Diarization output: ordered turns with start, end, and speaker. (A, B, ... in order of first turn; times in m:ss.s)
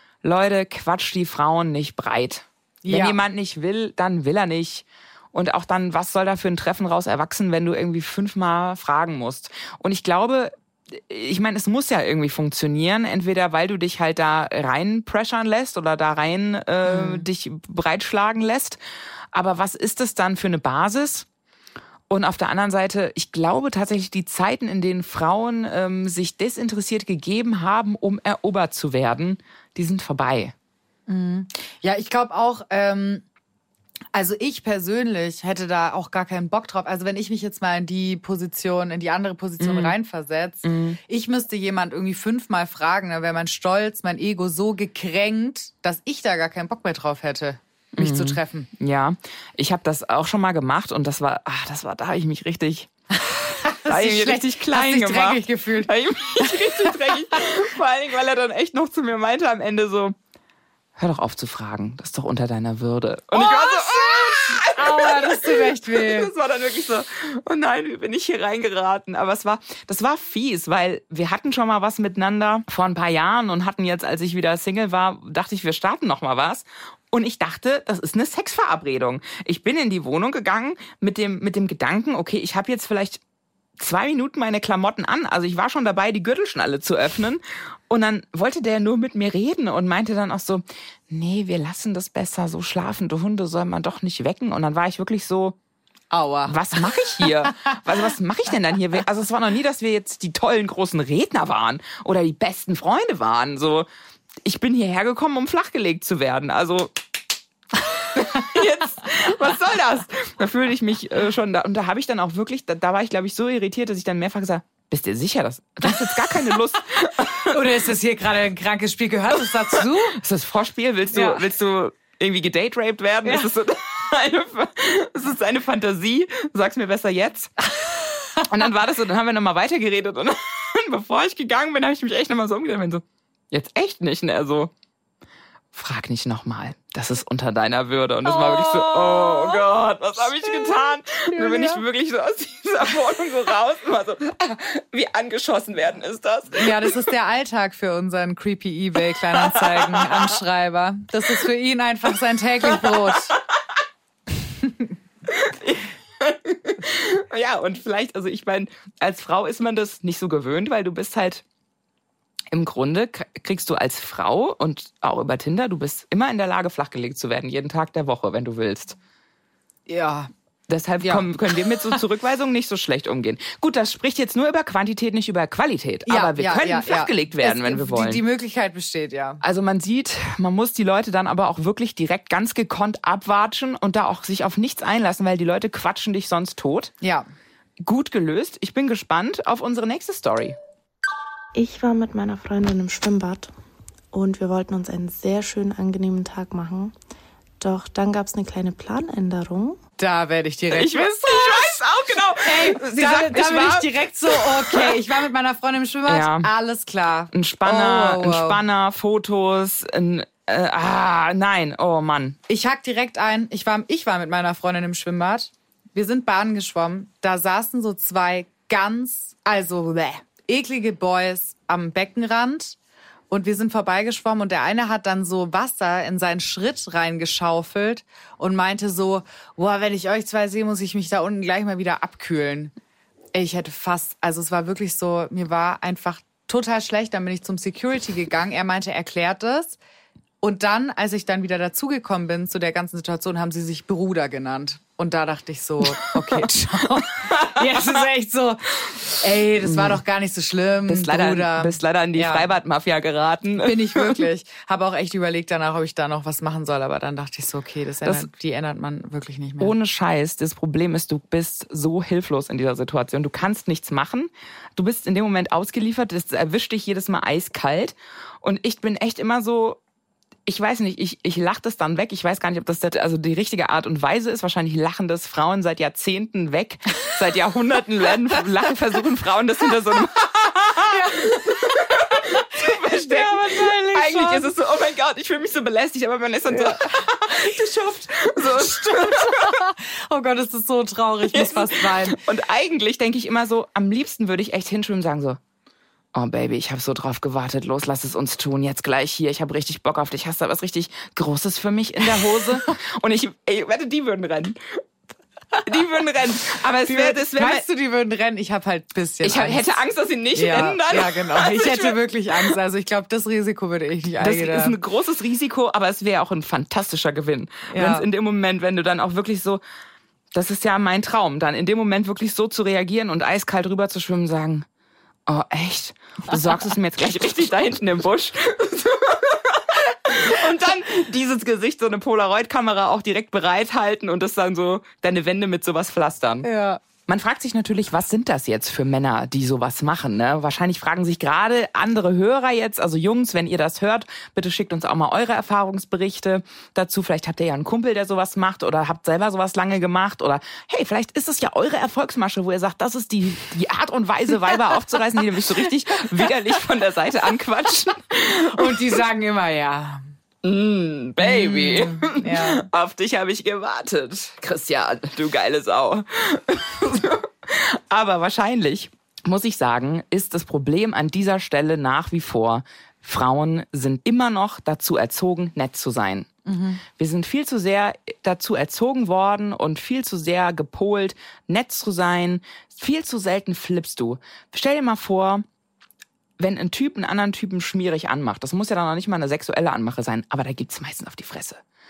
0:00.2-0:18.8 A
0:02.8-0:03.2 B
0:16.9-0:17.3 B
0:19.3-0:21.3 A
0:22.1-0:30.5 A
0:31.1-0:33.2 B
0:34.1-0:48.7 B
0:39.6-0:40.0 A
0:40.6-0:41.0 A
0:48.0-0:52.9 A
0:53.3-0:57.4 B
0:53.9-1:00.2 A
1:01.0-1:23.2 A
1:03.3-1:06.3 B
1:23.8-1:35.6 A
1:36.1-1:37.9 B
1:36.5-1:43.9 A
1:44.4-1:46.9 A
1:48.0-1:57.6 A
1:57.4-2:00.2 B
2:00.1-2:07.5 A
2:01.1-2:01.4 B
2:03.2-2:03.5 B
2:07.8-2:08.5 B
2:08.5-2:14.7 A
2:15.7-2:27.0 A
2:18.2-2:19.7 B
2:20.4-2:21.8 B
2:26.5-2:33.4 B
2:29.3-2:30.4 A
2:32.7-2:33.4 A
2:34.6-2:34.9 B
2:35.3-2:41.4 A
2:42.5-2:49.0 A
2:49.9-2:50.3 B
2:50.7-2:58.2 A
2:51.0-2:52.0 B
2:56.1-2:59.4 B
2:59.4-3:06.9 A
3:07.8-3:10.6 A
3:11.6-3:13.5 C
3:14.1-3:16.9 C
3:17.6-3:19.8 C
3:20.0-3:21.8 B
3:20.7-3:25.0 A
3:22.4-3:28.6 B
3:26.1-3:26.5 A
3:27.3-3:32.4 A
3:32.5-3:42.8 B
3:43.3-3:52.7 B
3:53.3-3:59.8 B
4:00.4-4:12.5 B
4:05.9-4:08.0 A
4:09.6-4:10.0 A
4:10.9-4:14.3 A
4:13.6-4:19.7 B
4:19.6-4:29.8 A
4:30.5-4:49.6 A
4:40.8-4:44.5 B
4:46.5-4:47.7 B
4:48.4-4:52.2 B
4:51.3-4:55.4 A
4:56.1-5:04.8 A
5:05.6-5:07.6 A
5:06.8-5:09.8 B
5:09.2-5:12.0 A
5:10.3-5:14.8 B
5:14.2-5:19.6 A
5:17.7-5:18.1 B
5:20.3-5:24.6 A
5:25.3-5:36.5 A
5:36.4-5:36.8 B
5:37.1-5:58.9 A
5:58.3-6:00.0 B
6:00.4-6:16.3 A
6:01.2-6:02.7 B
6:16.5-6:16.8 B
6:17.0-6:25.4 A
6:26.4-6:31.6 A